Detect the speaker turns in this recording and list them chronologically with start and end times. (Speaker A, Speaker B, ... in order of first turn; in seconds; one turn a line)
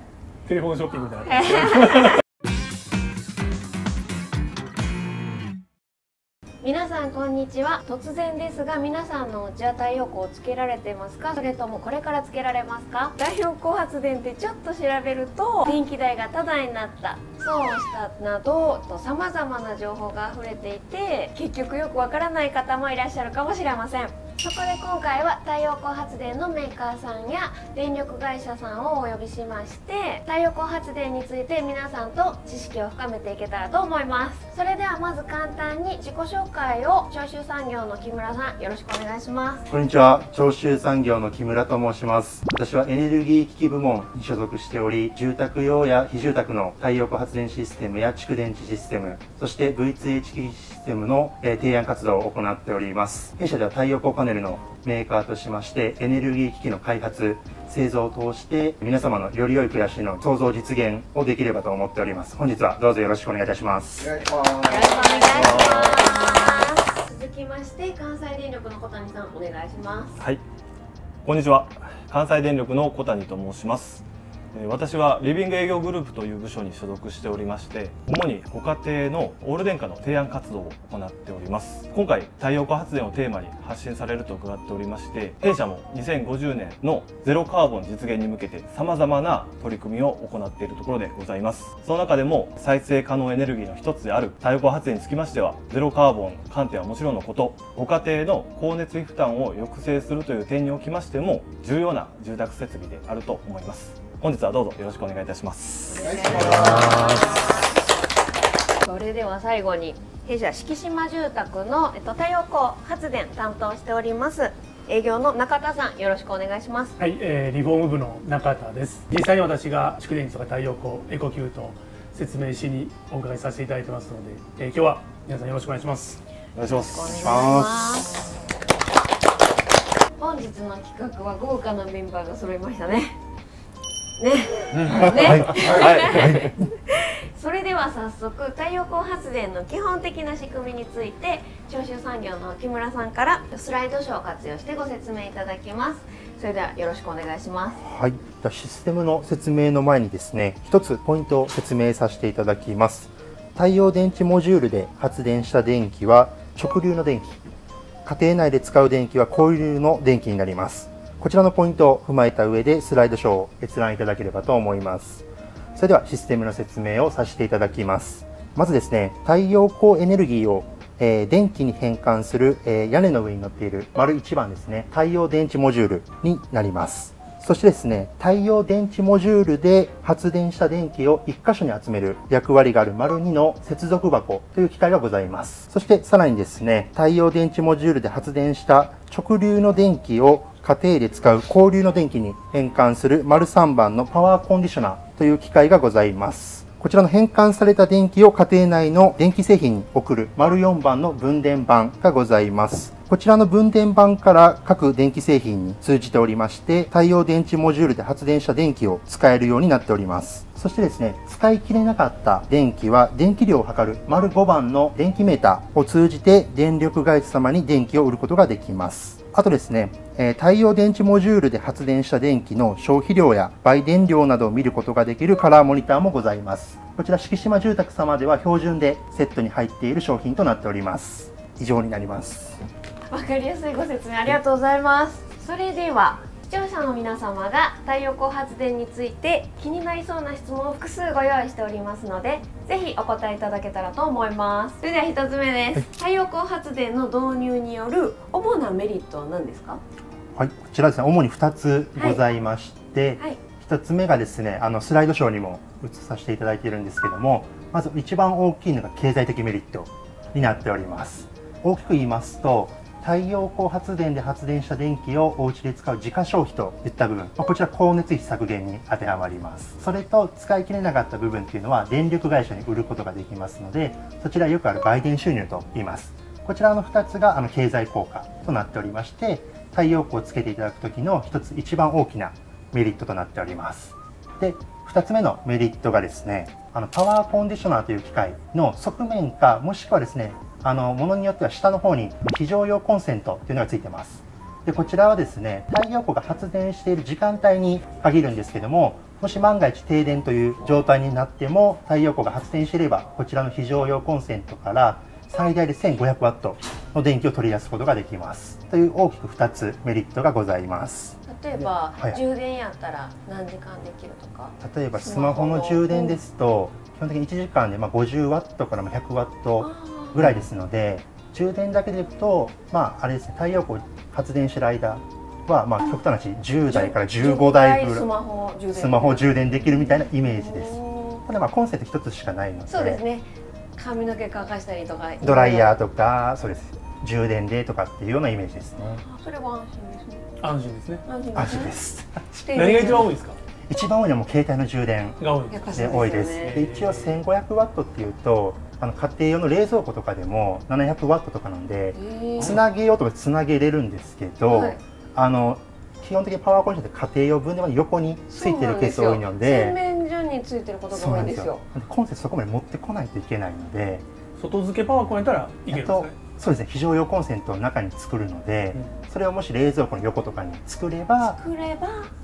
Speaker A: 0.5-2.1
Speaker B: 6.6-39.7
Speaker C: 39.7-64.2
Speaker B: 64.5-70.2
Speaker D: 65.3-66.1
Speaker D: 71.2-107.2
Speaker B: 105.9-107.8
Speaker B: 108.8-117.0
Speaker A: 117.0-126.2
Speaker D: 126.5-127.7
Speaker B: 126.7-128.3
Speaker C: 127.2-127.8
Speaker B: 130.2-133.2
Speaker B: 134.2-147.8
Speaker A: 134.7-135.2
Speaker C: 135.1-136.7
Speaker D: 135.6-136.3
Speaker C: 147.8-157.5
Speaker C: 158.1-232.6
Speaker B: 233.1-249.8
Speaker C: 250.3-312.2
Speaker B: 311.3-316.2
Speaker C: 314.6-328.1
Speaker B: 319.6-320.4
Speaker B: 326.7-331.2
Speaker C: 328.7-333.0
Speaker B: 332.7-335.8
Speaker C: 335.2-339.0
Speaker B: 338.8-340.3
Speaker A: 340.4-341.0
Speaker B: 341.1-341.8
Speaker C: 341.4-342.2
Speaker B: 342.3-343.1
Speaker A: 342.5-343.4
Speaker C: 343.7-359.8
Speaker A: 345.2-347.2
Speaker B: 345.5-346.6
Speaker B: 351.9-352.6
Speaker B: 354.5-354.8
Speaker B: 358.3-361.6
Speaker C: 360.9-364.1
Speaker A: 364.4-366.1
Speaker C: 365.7-371.4
Speaker B: 371.3-372.1